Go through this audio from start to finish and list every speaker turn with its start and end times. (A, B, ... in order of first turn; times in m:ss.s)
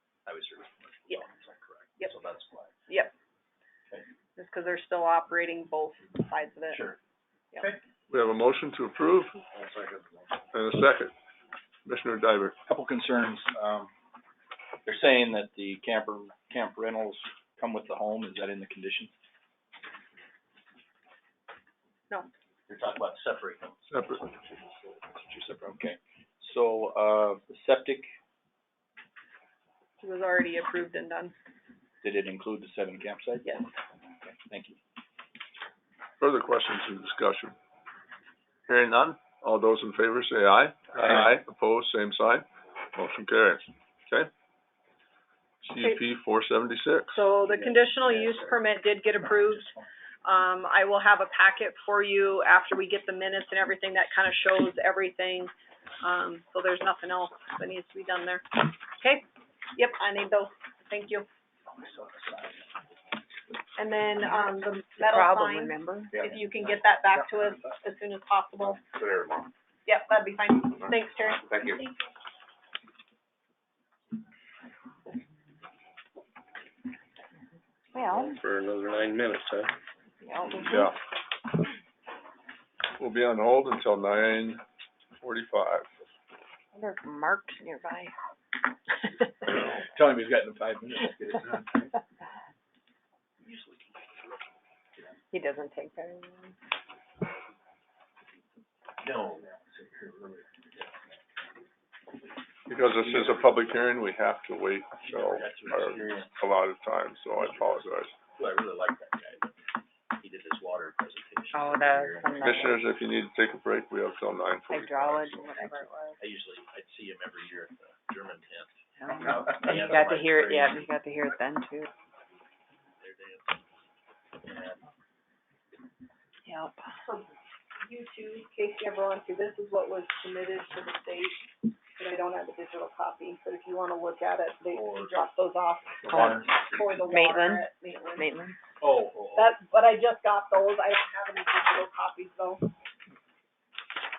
0:00.2-0:02.7 A
0:04.4-0:06.8 B
0:06.7-0:07.0 A
0:08.1-0:09.3 C
0:09.5-0:10.4 A
0:10.5-0:11.1 C
0:11.8-0:12.6 C
0:12.7-0:13.9 D
0:14.8-0:19.1 D
0:22.7-0:25.0 A
0:23.9-0:24.2 C
0:25.1-0:28.1 D
0:30.0-0:31.3 B
0:32.0-0:33.6 D
0:34.3-0:34.8 D
0:36.2-0:37.5 C
0:38.7-0:44.3 C
0:45.6-0:47.2 C
0:45.8-0:46.0 B
0:47.1-0:49.7 B
0:47.8-0:48.3 E
0:50.2-0:55.5 B
0:56.0-1:01.3 B
1:01.7-1:02.8 D
1:03.8-1:08.8 B
1:04.2-1:06.2 F
1:07.1-1:07.7 D
1:08.9-1:09.5 A
1:09.8-1:11.7 B
1:11.4-1:11.8 A
1:17.9-1:18.4 F
1:18.1-1:19.7 E
1:20.2-1:20.7 F
1:20.6-1:21.0 C
1:23.0-1:24.6 C
1:25.2-1:25.9 C
1:26.7-1:28.1 F
1:29.6-1:31.9 D
1:33.4-1:34.4 A
1:35.3-1:36.5 F
1:39.0-1:39.5 A
1:39.3-1:40.5 D
1:42.7-1:48.1 C
1:45.0-1:46.4 A
1:47.3-1:49.6 A
1:50.2-1:52.7 A
1:51.5-1:52.8 F
1:52.4-1:55.8 C
1:54.7-1:56.2 F
1:56.2-2:00.9 A
1:59.0-2:01.9 F
2:03.0-2:03.5 A
2:04.4-2:04.8 A
2:06.4-2:06.8 F
2:07.0-2:18.3 B
2:14.8-2:15.1 A
2:16.0-2:16.4 A
2:16.1-2:16.4 F
2:17.1-2:17.6 F
2:18.2-2:18.6 F
2:18.8-2:19.4 D
2:19.3-2:22.7 B